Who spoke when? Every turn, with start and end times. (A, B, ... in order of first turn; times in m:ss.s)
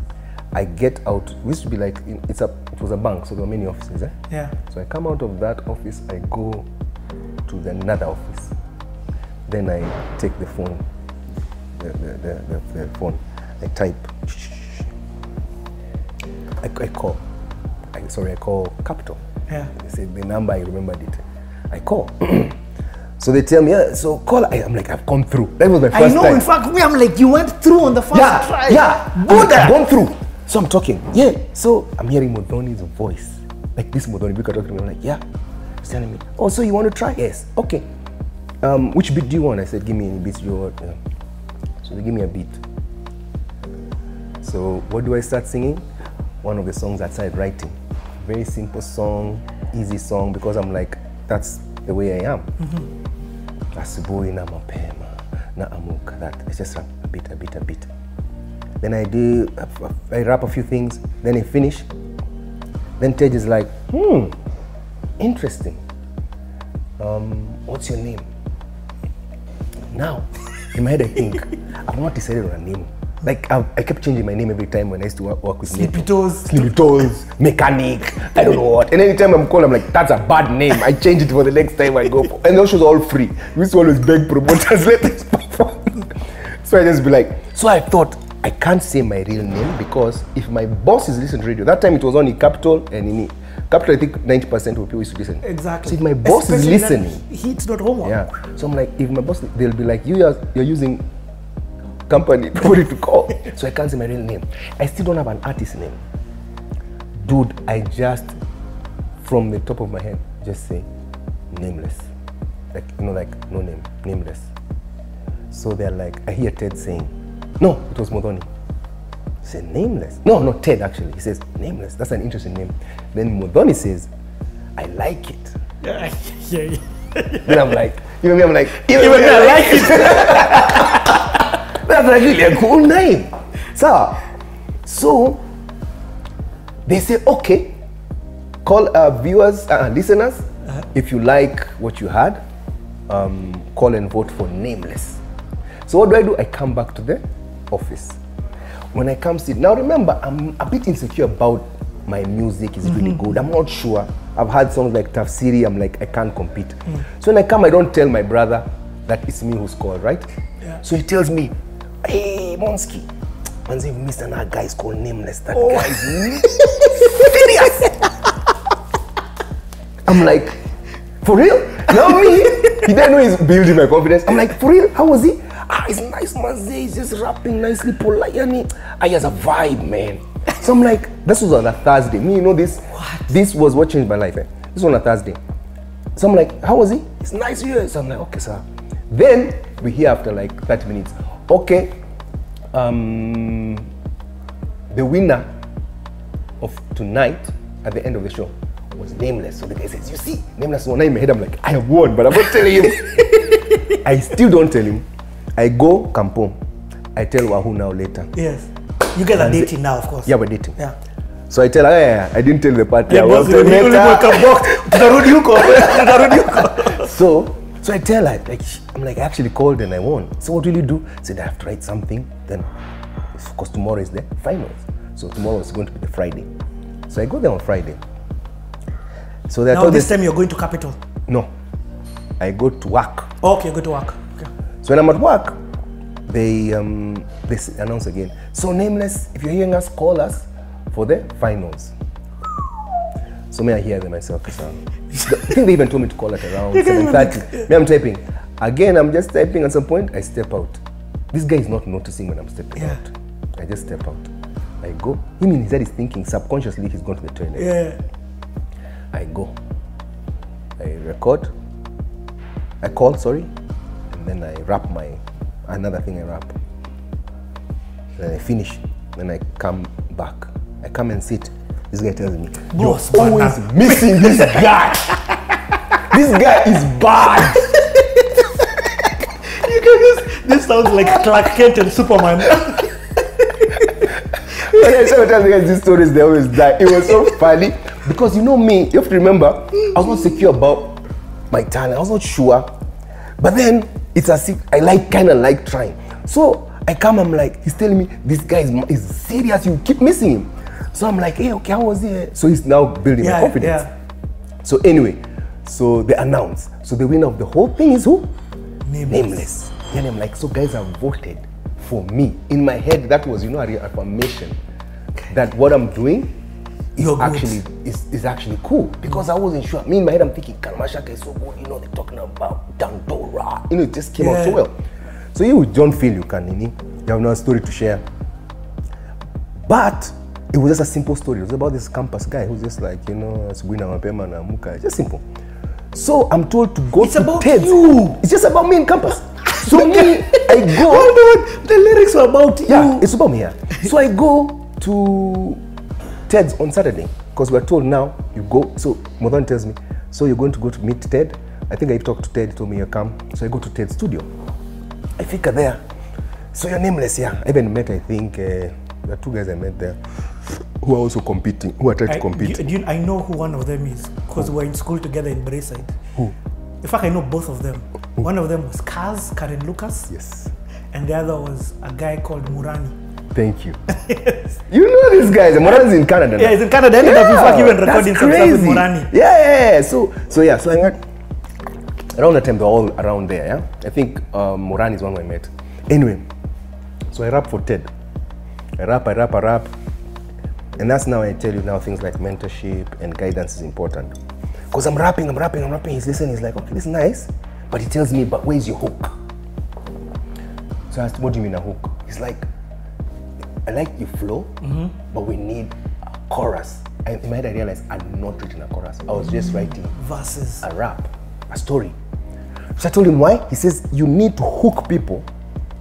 0:00.5-0:06.7 A
0:07.5-0:08.5 A
0:09.5-0:10.8 A
0:11.8-0:14.9 A
0:16.6-0:17.2 A
0:17.9-0:22.6 A
0:23.2-0:26.5 A
0:25.9-0:29.8 B
0:28.1-0:35.2 A
0:35.8-0:37.9 A
0:38.6-0:41.0 A
0:41.8-0:42.6 A
0:44.4-0:45.9 A
0:46.4-0:52.5 A
0:53.7-0:57.9 A
0:58.8-1:01.9 A
1:03.0-1:04.4 A
1:05.2-1:05.8 A
1:07.0-1:08.3 A
1:09.9-1:37.2 A
1:15.7-1:16.8 B
1:35.4-1:38.2 B
1:38.0-1:41.1 A
1:42.1-1:46.0 A
1:47.2-1:48.4 A
1:49.2-1:50.9 A
1:51.5-1:52.1 A
1:52.7-1:54.5 A
1:55.5-1:58.5 A
1:59.4-2:04.1 A
2:04.8-2:05.6 A
2:05.8-2:07.6 B
2:07.4-2:14.3 A
2:08.7-2:11.4 B
2:14.8-2:15.4 A
2:16.9-2:17.8 A
2:18.6-2:22.4 A
2:23.1-2:25.2 A
2:25.9-2:28.2 A
2:28.9-2:40.3 A
2:40.8-2:43.1 A
2:43.7-2:48.2 A
2:45.6-2:45.9 B
2:50.0-2:50.6 A
2:51.2-3:05.4 A
3:03.0-3:03.2 B
3:06.2-3:12.0 A
3:12.7-3:13.9 A
3:14.9-3:15.5 A
3:16.6-3:26.6 A
3:23.4-3:23.9 B
3:27.2-3:28.3 A
3:28.3-3:31.0 B
3:29.3-3:29.7 A
3:30.2-3:30.8 A
3:31.5-3:42.7 A
3:33.1-3:37.1 B
3:43.3-3:46.5 A
3:47.1-3:48.0 A
3:49.5-3:50.2 A
3:49.7-3:51.0 B
3:52.4-3:53.3 A
3:53.4-3:54.5 B
3:54.8-3:55.6 A
3:56.3-4:02.0 A
4:03.5-4:10.8 A
4:06.7-4:07.7 B
4:11.3-4:14.3 A
4:14.8-4:17.8 A
4:17.6-4:18.0 B
4:19.1-4:19.6 A
4:20.8-4:21.5 A
4:22.8-4:23.5 A
4:24.1-4:26.6 A
4:28.2-4:35.2 A
4:32.7-4:34.5 B
4:36.0-4:37.7 A
4:37.8-4:38.3 B
4:39.4-4:43.0 B
4:43.6-4:43.8 B
4:44.5-4:52.8 A
4:53.4-5:03.9 A
5:03.2-5:03.9 B
5:04.6-5:08.3 A
5:08.8-5:09.4 B
5:09.1-5:14.6 A
5:15.3-5:16.4 A
5:17.0-5:24.8 A
5:17.0-5:17.6 B
5:24.2-5:24.6 B
5:25.3-5:28.0 A
5:29.6-5:35.2 A
5:35.9-5:41.2 A
5:37.0-5:38.2 B
5:39.5-5:43.1 B
5:42.7-5:45.6 A
5:46.3-5:54.3 A
5:55.2-5:55.8 A
5:56.5-6:02.7 A
6:02.1-6:06.0 B
6:06.8-6:10.1 B
6:10.1-6:10.5 A
6:10.9-6:13.0 B
6:13.3-6:13.8 A
6:14.0-6:14.4 B
6:14.7-6:21.0 A
6:16.4-6:19.1 B
6:22.1-6:26.3 A
6:27.1-6:27.9 A
6:28.8-6:29.7 A
6:30.8-6:34.2 A
6:34.7-6:39.2 A
6:40.9-6:42.5 A
6:43.6-6:50.0 A
6:44.7-6:44.9 B
6:49.2-6:50.6 B
6:50.6-6:52.0 A
6:52.8-6:55.3 A